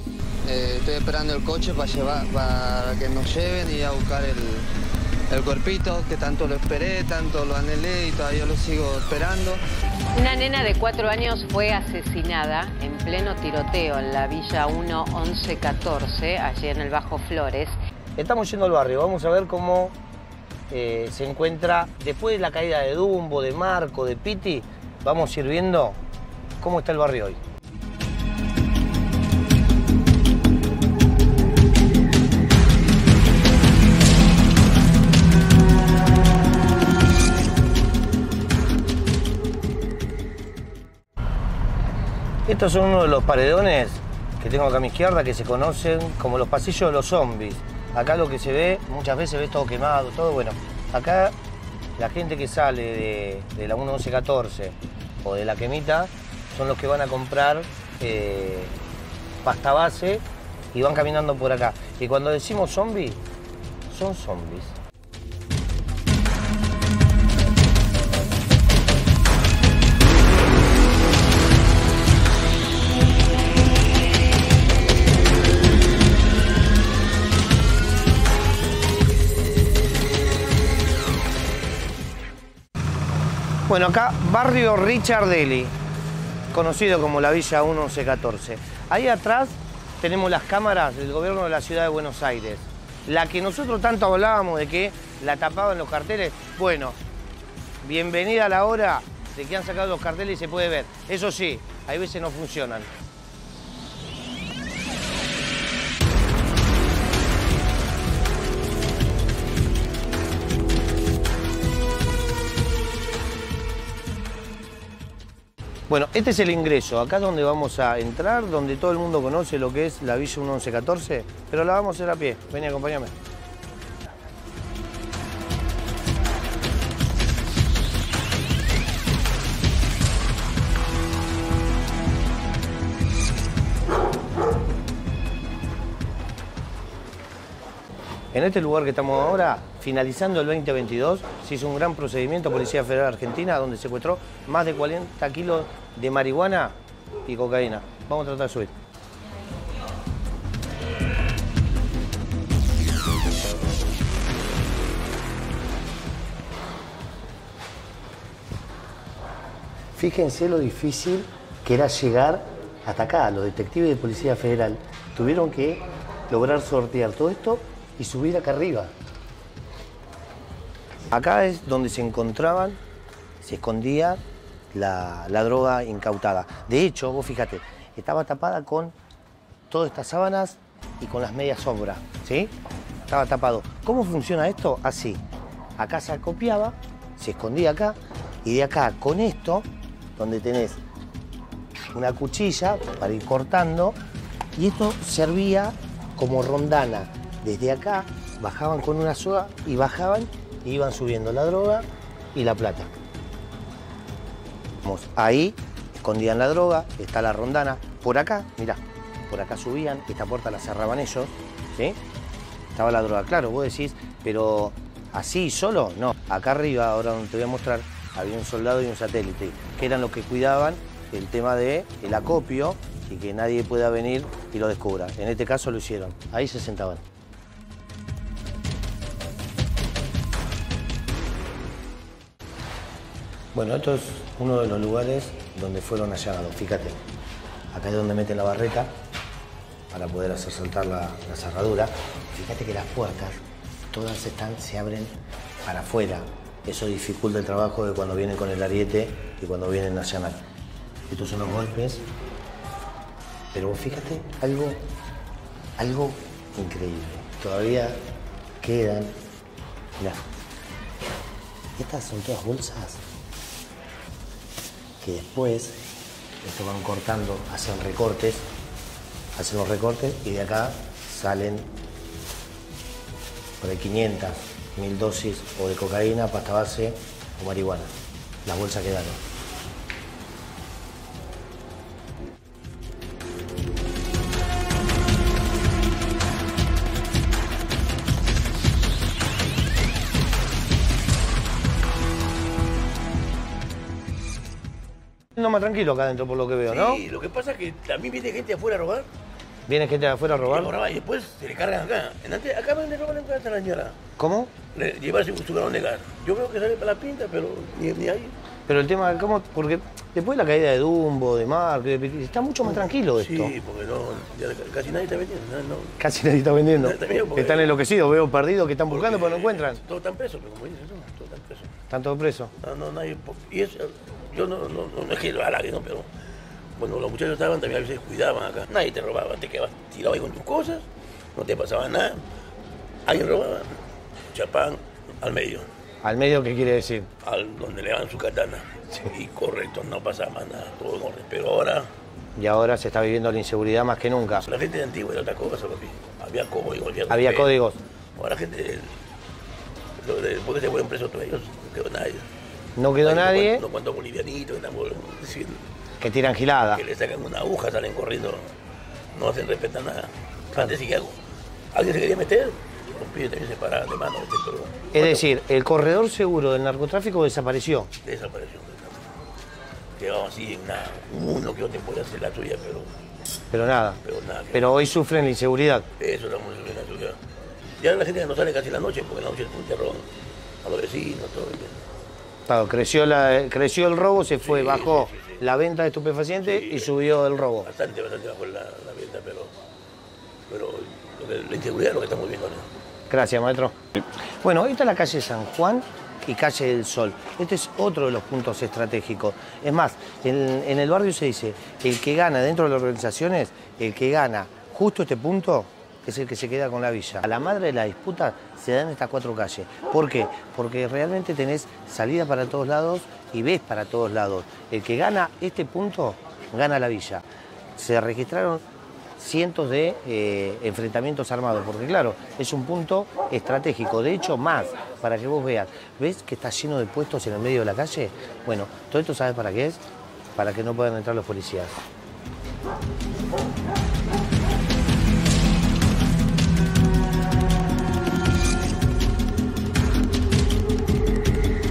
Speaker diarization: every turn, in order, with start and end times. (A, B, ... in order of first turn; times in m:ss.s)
0:00.4-0:04.7 A
0:05.3-0:09.6 A
0:10.1-0:17.8 B
0:18.2-0:19.9 C
0:20.7-0:26.0 C
0:26.6-0:27.4 C
0:42.4-0:51.4 C
0:52.0-0:58.8 C
0:59.4-1:03.2 C
1:03.9-1:04.8 C
1:23.7-1:25.7 C
1:26.5-1:37.0 C
1:37.8-1:42.9 C
1:55.9-2:03.1 C
2:18.3-2:28.7 C
2:39.9-2:48.9 C
2:51.1-2:52.8 C
2:53.4-2:54.2 C
2:54.7-2:58.9 C
2:59.7-3:02.5 C
3:03.1-3:05.2 C
3:05.8-3:10.8 C
3:11.9-3:14.0 C
3:14.6-3:22.9 C
3:24.8-3:32.0 C
3:32.7-3:47.0 C
3:53.5-3:57.0 C
3:57.7-3:58.9 C
3:59.9-4:03.4 C
4:03.9-4:10.4 C
4:11.1-4:12.0 C
4:13.5-4:14.8 C
4:15.8-4:18.0 C
4:18.6-4:19.2 C
4:21.8-4:23.0 C
4:25.0-4:25.8 C
4:26.4-4:28.5 C
4:29.3-4:31.7 C
4:33.6-4:37.9 C
4:38.4-4:39.2 C
4:55.3-4:57.0 C
4:56.7-4:59.1 D
4:59.7-5:00.7 C
5:00.4-5:04.0 D
5:04.2-5:04.5 C
5:04.7-5:08.4 D
5:08.7-5:13.5 C
5:13.0-5:16.0 D
5:16.0-5:19.8 C
5:16.8-5:17.8 D
5:18.9-5:21.7 D
5:21.9-5:22.5 C
5:22.6-5:26.1 D
5:26.8-5:32.2 D
5:33.0-5:33.7 D
5:34.3-5:35.7 D
5:36.0-5:37.1 C
5:37.2-5:41.9 D
5:42.4-5:44.5 C
5:44.4-5:47.5 D
5:47.1-5:47.8 C
5:48.2-5:49.0 D
5:50.0-5:52.2 D
5:52.8-5:53.6 C
5:53.0-5:55.6 D
5:56.0-5:56.8 C
5:56.7-5:58.5 D
5:59.1-6:01.2 D
6:01.7-6:05.2 D
6:04.9-6:07.9 C
6:08.0-6:09.1 D
6:10.0-6:12.9 D
6:13.5-6:14.0 C
6:14.0-6:14.8 D
6:14.5-6:15.9 C
6:16.0-6:17.2 D
6:17.8-6:20.1 D
6:20.6-6:21.8 D
6:22.5-6:27.7 C
6:24.4-6:25.4 D
6:26.4-6:29.5 D
6:30.5-6:32.7 D
6:33.1-6:58.6 C
6:59.2-7:09.8 C
7:10.4-7:11.8 C